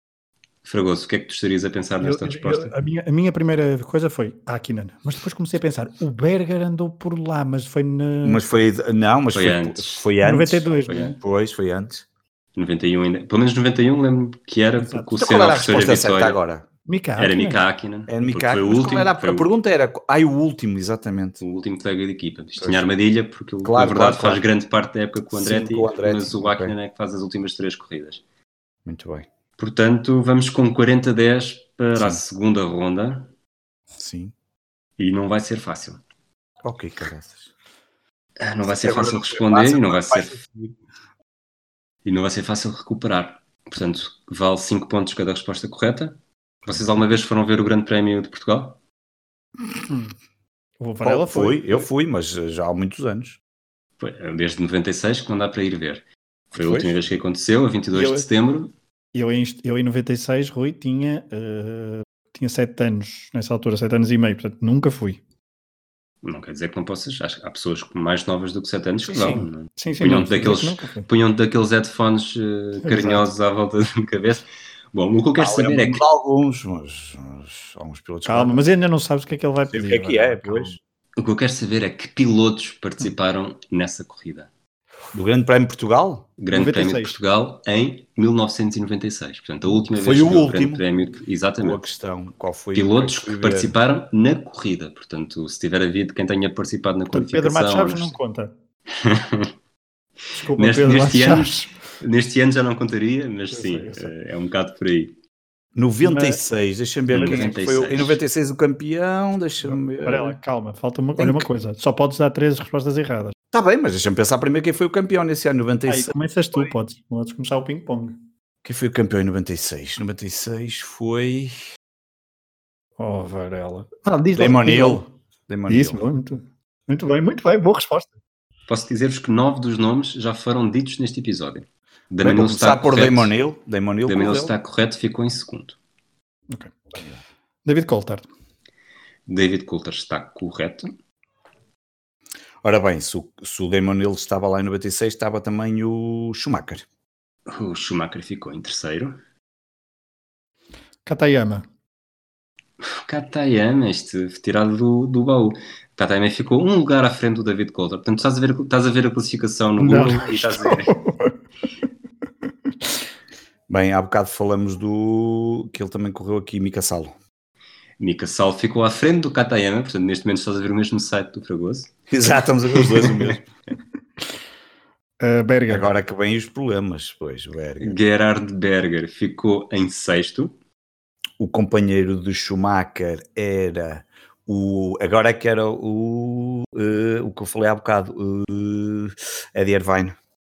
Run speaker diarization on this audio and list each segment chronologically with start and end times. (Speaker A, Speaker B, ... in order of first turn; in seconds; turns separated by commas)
Speaker A: 0.6-2.7, Speaker B: 2.0-8.4, Speaker C: 8.2-10.7, Speaker A: 9.3-10.1, Speaker B: 10.2-11.2, Speaker A: 10.9-11.1, Speaker C: 11.2-12.0, Speaker A: 12.6-16.4, Speaker B: 14.8-15.1, Speaker C: 15.2-16.6, Speaker B: 16.9-17.6, Speaker A: 17.2-19.5, Speaker C: 18.1-21.4, Speaker A: 21.4-28.2, Speaker C: 22.6-22.8, Speaker C: 23.6-24.4, Speaker C: 25.3-26.7, Speaker C: 28.8-29.3, Speaker A: 29.6-33.3, Speaker C: 31.9-32.2, Speaker C: 34.0-34.3, Speaker A: 35.0-36.0, Speaker C: 36.6-37.5, Speaker A: 38.4-40.4, Speaker C: 38.6-40.8, Speaker A: 42.0-48.8, Speaker B: 49.9-50.1, Speaker B: 50.8-51.9, Speaker C: 51.0-53.4, Speaker A: 54.0-58.7, Speaker C: 56.5-57.0, Speaker B: 57.9-58.2, Speaker B: 59.1-65.2, Speaker A: 66.2-76.0, Speaker B: 69.1-71.1, Speaker B: 72.8-73.2, Speaker C: 75.4-78.6, Speaker B: 78.2-80.8, Speaker C: 79.7-80.8, Speaker A: 81.2-84.5, Speaker C: 85.1-86.3, Speaker A: 86.4-91.8, Speaker B: 86.5-87.2, Speaker C: 89.7-90.8, Speaker C: 91.6-93.7, Speaker A: 92.7-98.2, Speaker B: 97.1-98.5, Speaker A: 98.9-99.5, Speaker B: 100.3-101.8, Speaker A: 100.5-105.2, Speaker B: 103.5-104.1, Speaker C: 105.8-110.4, Speaker B: 106.0-106.4, Speaker A: 107.1-108.2, Speaker B: 109.6-113.3, Speaker C: 111.2-111.5, Speaker C: 113.5-116.7, Speaker B: 115.9-118.3, Speaker C: 118.6-121.5, Speaker B: 123.0-125.1, Speaker C: 124.3-126.0, Speaker B: 125.7-128.2, Speaker A: 128.7-133.3, Speaker C: 132.2-134.5, Speaker A: 134.1-135.8, Speaker B: 136.5-136.8, Speaker B: 137.6-138.3, Speaker A: 139.3-140.9, Speaker C: 142.6-146.8, Speaker A: 147.5-149.2, Speaker B: 151.1-151.7, Speaker A: 152.8-160.9, Speaker B: 159.8-161.3, Speaker C: 163.7-167.1, Speaker A: 168.0-171.9, Speaker C: 172.1-173.4, Speaker B: 175.2-175.9, Speaker C: 175.7-178.0, Speaker A: 177.8-180.5, Speaker C: 181.4-190.1